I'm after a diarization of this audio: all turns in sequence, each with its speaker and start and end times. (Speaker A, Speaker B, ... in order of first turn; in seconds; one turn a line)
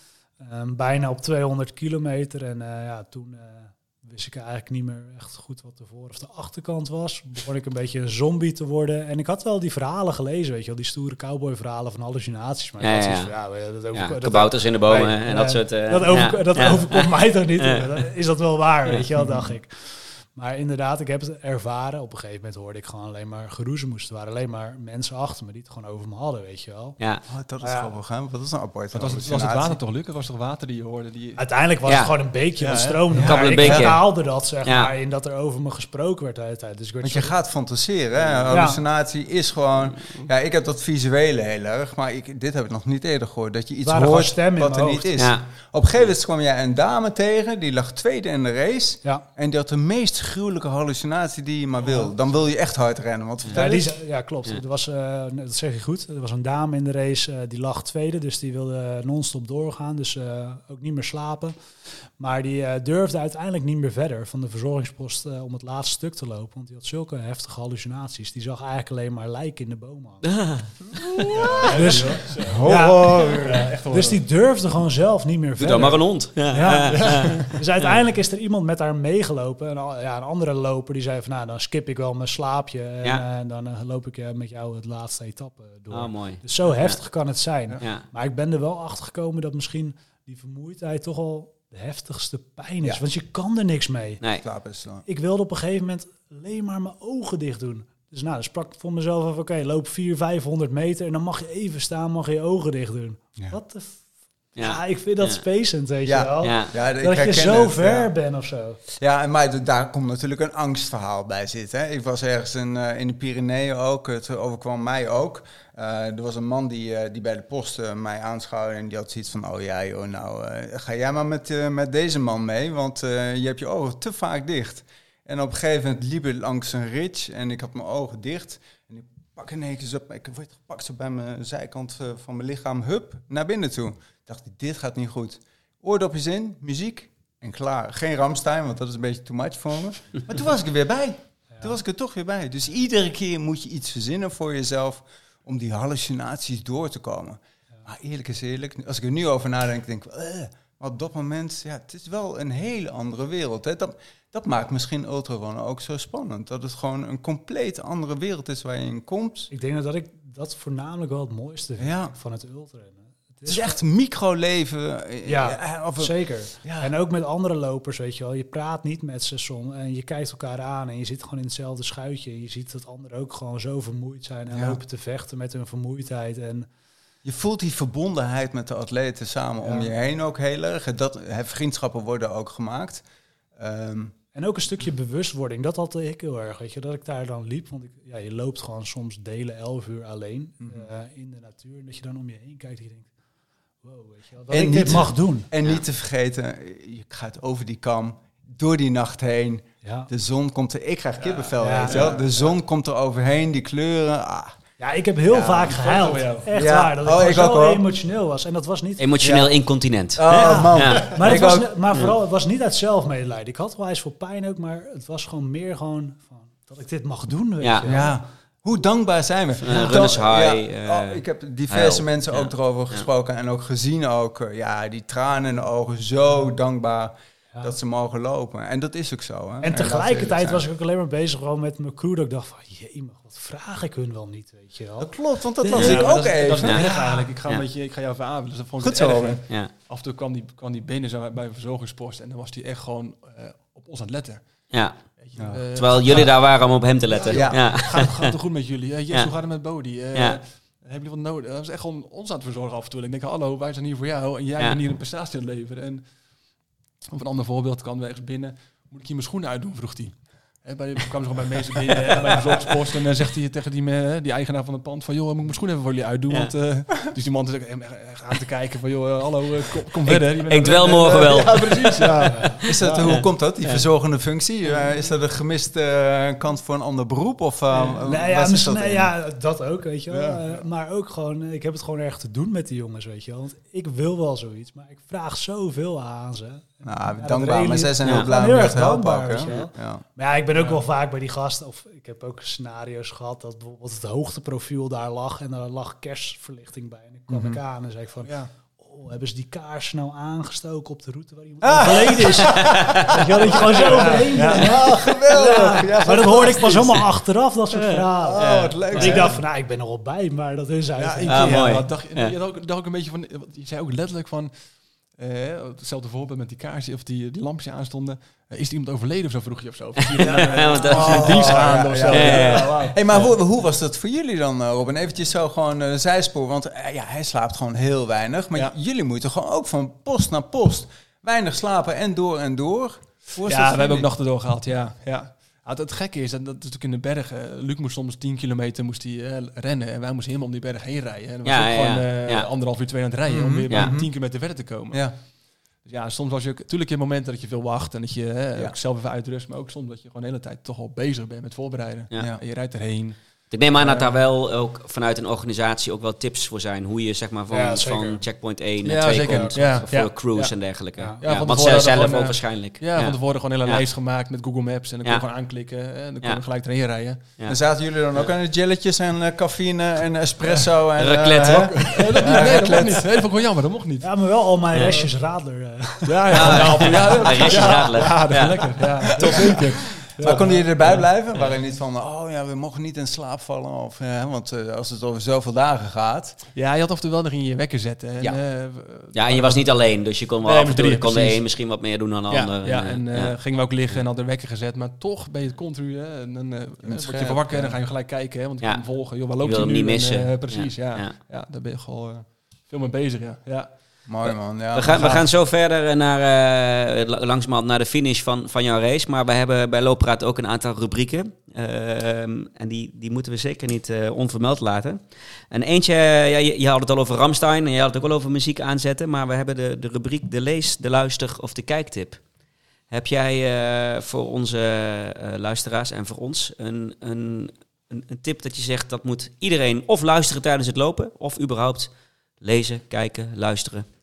Speaker A: 0.4-27.0
Speaker B: 12.8-13.3
Speaker B: 13.9-18.0
Speaker C: 19.2-19.5
Speaker C: 27.3-29.8
Speaker A: 27.6-27.9
Speaker D: 28.9-31.4
Speaker A: 31.4-37.3
Speaker B: 31.9-32.1
Speaker D: 32.6-33.0
Speaker C: 33.1-33.9
Speaker B: 33.2-34.0
Speaker B: 34.6-34.9
Speaker C: 37.0-53.9
Speaker A: 38.5-38.8
Speaker A: 43.8-45.1
Speaker B: 45.2-45.5
Speaker A: 53.5-61.5
Speaker A: 62.2-70.2
Speaker B: 70.2-71.7
Speaker D: 71.3-72.7
Speaker A: 71.4-94.2
Speaker C: 72.4-73.7
Speaker D: 73.3-74.2
Speaker B: 75.6-77.9
Speaker D: 76.9-77.5
Speaker B: 85.9-87.0
Speaker B: 87.8-88.0
Speaker C: 94.4-95.0
Speaker A: 95.0-104.0
Speaker B: 104.6-105.4
Speaker A: 104.6-108.8
Speaker C: 106.0-108.1
Speaker B: 106.4-106.7
Speaker C: 108.9-159.5
Speaker A: 159.5-163.8
Speaker C: 161.8-162.1
Speaker C: 163.4-166.9
Speaker A: 165.2-176.7
Speaker C: 174.5-174.8
Speaker C: 177.2-183.0
Speaker A: 179.6-179.9
Speaker C: 183.6-184.1
Speaker A: 184.3-193.1
Speaker C: 190.6-190.9
Speaker A: 193.8-195.5
Speaker C: 194.5-204.6
Speaker A: 199.8-200.1
Speaker D: 201.2-202.2
Speaker A: 201.6-202.2
Speaker A: 204.8-209.1
Speaker C: 205.3-205.7
Speaker D: 205.6-206.5
Speaker C: 206.5-207.8
Speaker B: 209.0-211.2
Speaker C: 209.2-209.5
Speaker C: 210.2-211.7
Speaker A: 210.3-218.2
Speaker B: 217.6-217.9
Speaker C: 217.8-230.6
Speaker B: 219.6-223.1
Speaker A: 229.6-237.3
Speaker C: 235.0-236.8
Speaker D: 235.7-244.4
Speaker B: 236.6-236.9
Speaker C: 238.8-239.4
Speaker B: 244.7-245.0
Speaker D: 245.2-246.4
Speaker C: 245.4-245.6
Speaker B: 245.7-248.3
Speaker D: 247.1-256.0
Speaker C: 247.3-247.6
Speaker B: 250.1-250.4
Speaker D: 257.1-272.6
Speaker B: 270.1-271.9
Speaker A: 272.0-273.0
Speaker C: 272.6-279.1
Speaker B: 273.0-273.8
Speaker A: 277.7-311.6
Speaker D: 280.1-280.5
Speaker C: 286.8-290.0
Speaker B: 288.0-288.3
Speaker D: 290.5-290.8
Speaker C: 297.3-297.6
Speaker C: 301.6-307.1
Speaker B: 302.4-303.2
Speaker D: 303.1-304.8
Speaker B: 307.8-309.2
Speaker C: 308.1-309.4
Speaker D: 311.0-314.5
Speaker B: 311.3-312.4
Speaker D: 315.2-323.3
Speaker B: 320.1-322.9
Speaker C: 320.9-334.1
Speaker D: 333.4-345.1
Speaker B: 341.4-342.5
Speaker C: 343.2-344.1
Speaker D: 345.8-353.2
Speaker B: 353.5-363.8
Speaker D: 353.8-354.1
Speaker A: 357.5-358.2
Speaker D: 358.8-360.5
Speaker A: 359.2-359.8
Speaker D: 361.2-367.2
Speaker C: 367.4-373.1
Speaker B: 371.0-372.3
Speaker D: 371.4-374.1
Speaker A: 374.0-377.9
Speaker B: 374.7-375.0
Speaker D: 376.0-381.0
Speaker B: 376.3-379.6
Speaker C: 376.4-376.8
Speaker A: 379.2-379.4
Speaker C: 379.2-379.6
Speaker C: 380.2-386.4
Speaker D: 386.5-389.6
Speaker B: 389.1-393.4
Speaker D: 390.4-391.4
Speaker D: 392.3-404.0
Speaker C: 396.8-397.8
Speaker B: 399.4-401.1
Speaker C: 404.1-405.2
Speaker B: 404.7-422.2
Speaker D: 404.9-405.2
Speaker B: 422.9-433.9